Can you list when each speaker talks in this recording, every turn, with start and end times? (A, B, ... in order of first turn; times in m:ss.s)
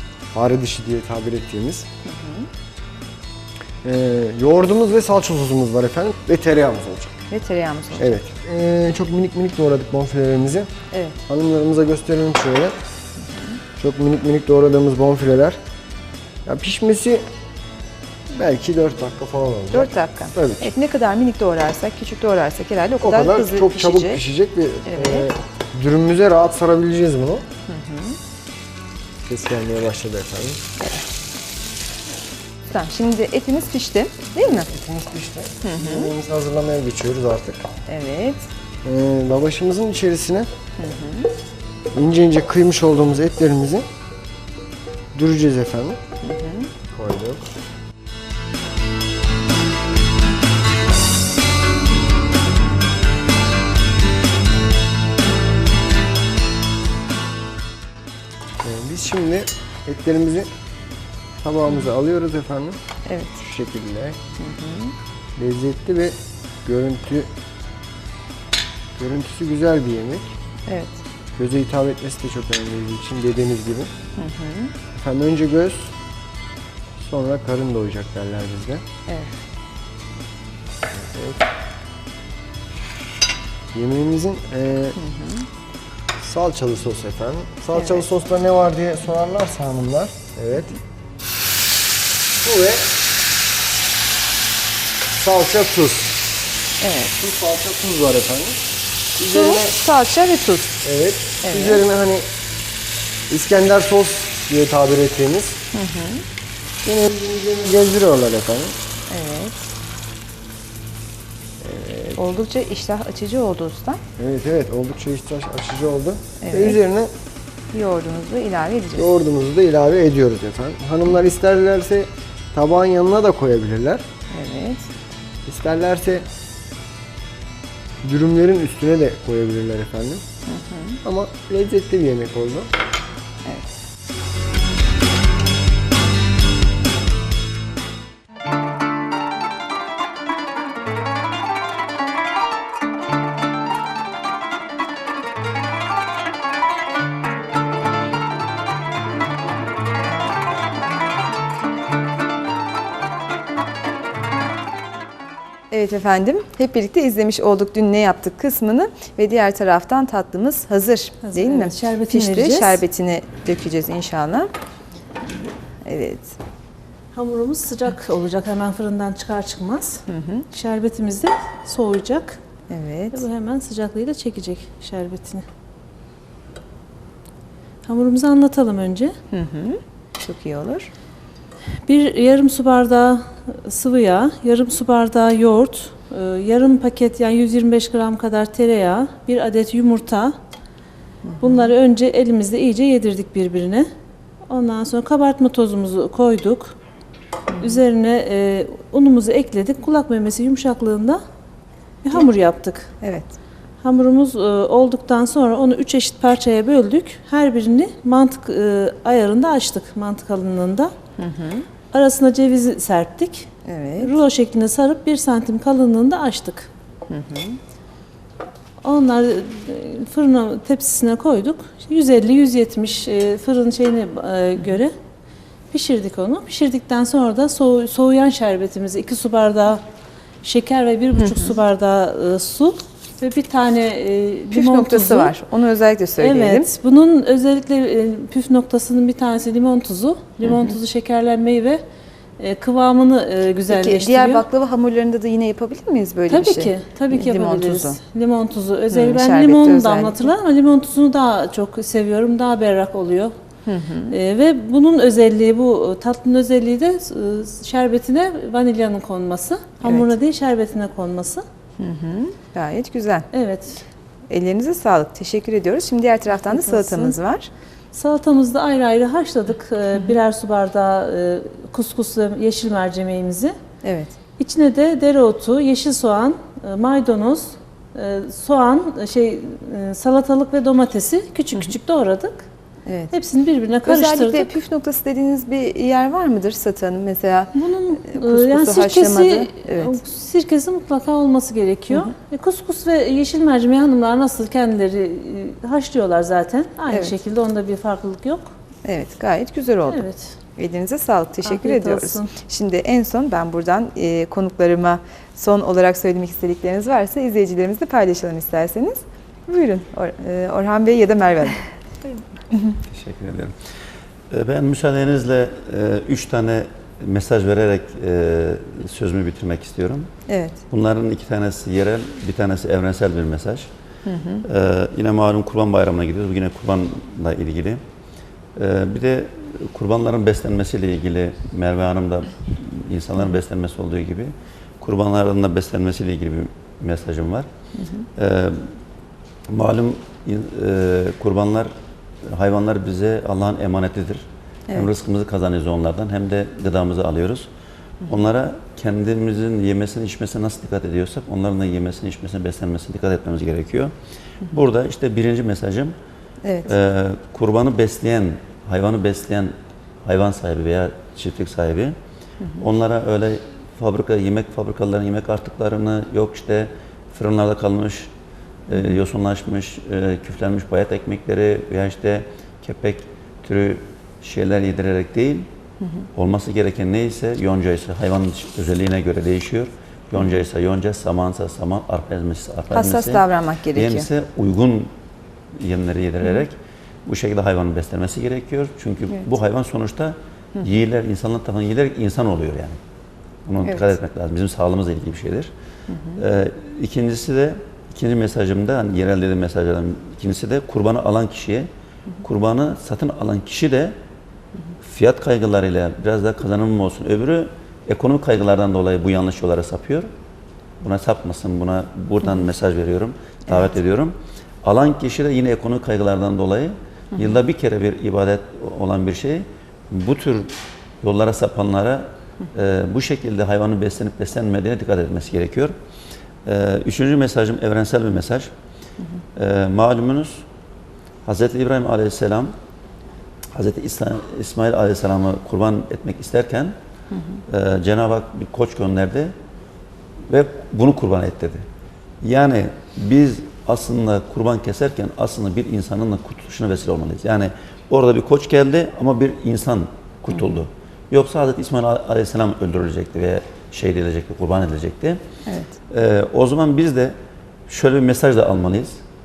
0:00.3-0:01.9 A
0:02.0-0:02.5 B
0:03.8-0:07.1 A
0:07.3-0:08.2 B
0:08.0-0:10.7 A
0:10.9-0:11.2 B
0:11.3-0:12.8 A
0:13.2-0:13.6 B
0:13.8-0:15.6 A
0:16.5-0:17.2 A
0:18.3-0:20.7 A
0:19.7-0:24.2 B
0:23.0-0:27.5 A
0:24.9-0:25.3 B
0:27.7-0:28.2 B
0:29.2-0:30.6 A
0:30.8-0:31.0 B
0:32.7-0:34.7 B
0:34.4-0:37.7 A
0:35.6-0:36.1 B
0:37.9-0:38.5 B
0:38.8-0:40.5 A
0:40.8-0:41.3 B
0:41.9-0:43.9 A
0:45.1-0:46.0 A
0:46.2-0:46.7 B
0:46.9-0:47.5 A
0:58.6-1:00.5 A
1:01.4-1:02.8 A
1:03.1-1:03.4 B
1:03.4-1:04.2 A
1:04.4-1:04.9 B
1:05.4-1:07.3 A
1:09.0-1:10.4 A
1:10.7-1:11.0 B
1:11.4-1:13.9 A
1:14.2-1:14.7 B
1:14.9-1:15.9 A
1:17.0-1:18.8 A
1:19.1-1:19.3 B
1:20.9-1:21.5 A
1:23.7-1:25.0 A
1:25.0-1:25.5 B
1:26.2-1:30.8 A
1:27.8-1:28.0 B
1:32.4-1:33.0 A
1:35.1-1:36.2 A
1:36.8-1:37.1 B
1:37.1-1:38.6 A
1:39.2-1:39.8 A
1:39.3-1:40.8 B
1:40.8-1:42.3 A
1:41.4-1:41.8 B
1:43.3-1:45.6 A
1:45.7-1:46.2 B
1:46.8-1:48.8 A
1:49.1-1:49.6 B
1:51.6-1:52.2 A
1:52.2-1:54.0 B
1:54.2-1:57.1 A
1:56.4-1:56.8 B
1:57.7-1:59.1 B
1:59.0-2:04.0 A
2:04.3-2:04.9 B
2:05.5-2:06.3 A
2:08.0-2:10.2 A
2:10.5-2:11.0 B
2:11.0-2:12.7 A
2:13.4-2:13.7 B
2:35.7-2:44.5 B
2:41.2-2:42.8 C
2:45.8-2:46.4 B
2:47.1-2:52.4 C
2:50.1-2:50.5 B
2:52.7-2:53.2 B
2:53.1-2:55.4 C
2:57.9-2:59.1 C
2:59.3-3:00.9 B
3:01.8-3:10.4 C
3:11.3-3:11.7 B
3:11.4-3:13.9 C
3:14.5-3:16.8 C
3:17.5-3:17.8 B
3:17.6-3:21.2 C
3:22.0-3:22.9 C
3:23.0-3:23.3 B
3:23.8-3:30.9 C
3:31.2-3:31.7 B
3:31.9-3:36.7 C
3:33.6-3:34.2 B
3:37.1-3:37.6 B
3:38.8-3:44.9 C
3:45.7-3:49.8 C
3:50.4-3:55.3 C
3:51.2-3:51.6 B
3:54.5-3:56.7 B
3:56.2-4:01.8 C
4:00.4-4:00.8 B
4:02.4-4:04.4 C
4:03.7-4:08.0 B
4:06.3-4:13.3 C
4:08.9-4:10.3 B
4:13.6-4:14.2 B
4:14.1-4:21.4 C
4:21.8-4:23.3 B
4:23.3-4:23.8 C
4:24.3-4:27.5 B
4:26.5-4:27.1 C
4:27.9-4:33.5 C
4:33.8-4:34.1 B
4:34.4-4:42.5 C
4:42.9-4:43.2 B
4:43.1-4:44.5 C
4:43.8-4:50.0 B
4:47.5-4:58.5 C
4:56.9-4:57.2 B
4:58.8-5:11.6 B
4:59.9-5:00.3 C
5:01.4-5:02.3 C
5:12.9-5:13.5 D
5:14.3-5:20.1 D
5:20.3-5:20.6 B
5:20.7-5:23.7 D
5:24.1-5:24.4 B
5:24.4-5:27.8 D
5:28.6-5:37.5 D
5:37.8-5:38.1 B
5:38.2-5:38.8 D
5:39.5-5:41.7 D
5:42.2-5:47.5 D
5:48.1-5:53.9 D
5:54.5-5:55.9 D
5:56.4-5:56.7 B
5:56.6-5:59.5 D
6:00.0-6:01.9 D
6:02.6-6:08.1 D
6:08.7-6:15.5 D
6:16.1-6:23.2 D
6:22.7-6:24.1 B
6:23.7-6:24.9 D
6:25.5-6:32.8 D
6:33.4-6:35.5 D
6:35.9-6:36.2 B
6:36.2-6:41.7 D
6:42.2-6:43.9 D
6:44.8-6:50.1 D
6:50.8-7:05.8 D
7:06.4-7:08.5 D
7:09.4-7:10.5 D
7:11.2-7:12.5 D
7:13.5-7:16.8 D
7:17.1-7:17.4 B
7:17.5-7:19.3 D
7:20.3-7:21.6 D
7:22.2-7:35.2 D
7:35.5-7:35.8 B
7:35.9-7:37.1 D
7:37.7-7:39.0 D